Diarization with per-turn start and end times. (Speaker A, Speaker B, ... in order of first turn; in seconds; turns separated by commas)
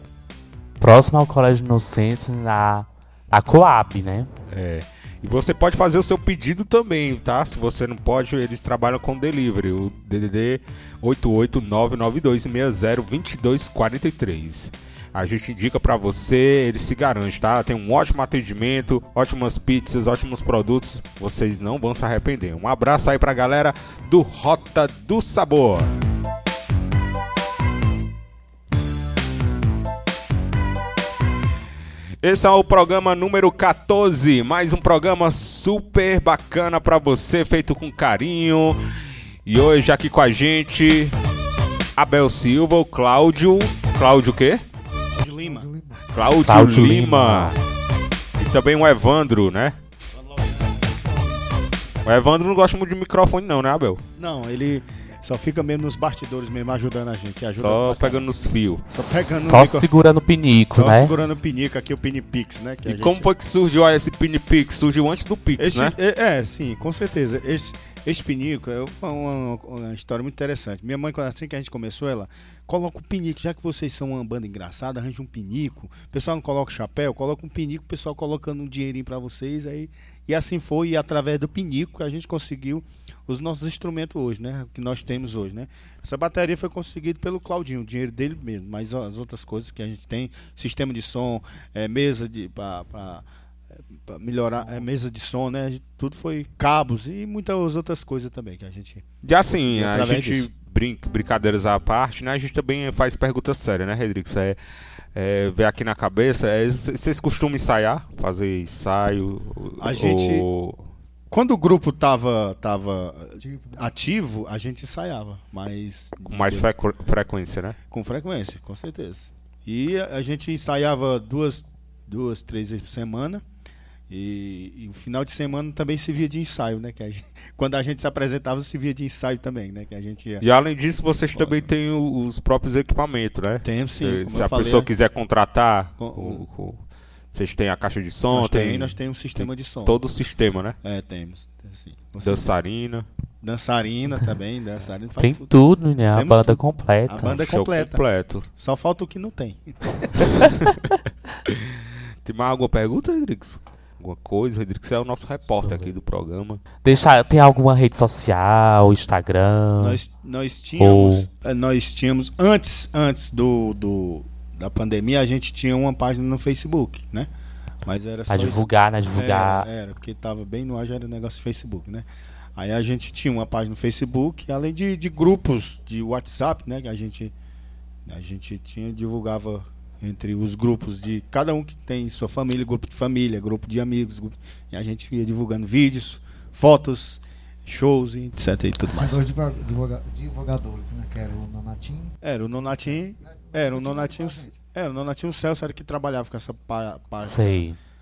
Speaker A: 0.8-4.3, Speaker B: 4.5-25.9, Speaker B: 32.2-38.8, Speaker B: 39.5-41.1, Speaker B: 42.0-44.6, Speaker C: 45.1-45.7, Speaker D: 45.4-46.1, Speaker B: 46.1-47.5, Speaker A: 46.4-47.5, Speaker B: 48.4-49.8, Speaker B: 52.0-54.0, Speaker C: 54.2-58.3, Speaker B: 57.5-58.9, Speaker C: 58.9-59.9, Speaker A: 58.9-61.1, Speaker C: 60.7-63.3, Speaker B: 62.8-65.9, Speaker C: 65.6-93.2, Speaker C: 93.9-100.5, Speaker B: 99.2-104.6, Speaker B: 105.1-110.8, Speaker C: 109.8-110.5, Speaker C: 111.3-116.7, Speaker D: 113.4-113.9, Speaker B: 116.3-117.8, Speaker C: 117.9-123.4, Speaker C: 124.1-130.4, Speaker B: 130.4-136.8, Speaker C: 131.3-131.7, Speaker C: 133.6-134.9, Speaker C: 136.0-136.4, Speaker B: 137.3-140.8, Speaker C: 138.3-140.0, Speaker C: 140.8-142.5, Speaker B: 142.2-143.1, Speaker C: 143.4-145.6, Speaker A: 145.2-147.4, Speaker C: 146.1-148.0, Speaker B: 147.3-148.5, Speaker C: 148.5-150.3, Speaker B: 150.2-150.9, Speaker B: 151.4-156.6, Speaker A: 156.8-160.0, Speaker C: 159.8-167.3, Speaker A: 160.8-161.3, Speaker C: 167.8-177.3, Speaker A: 168.3-169.7, Speaker C: 178.1-189.2, Speaker D: 188.9-194.6, Speaker C: 192.2-197.7, Speaker A: 197.2-197.8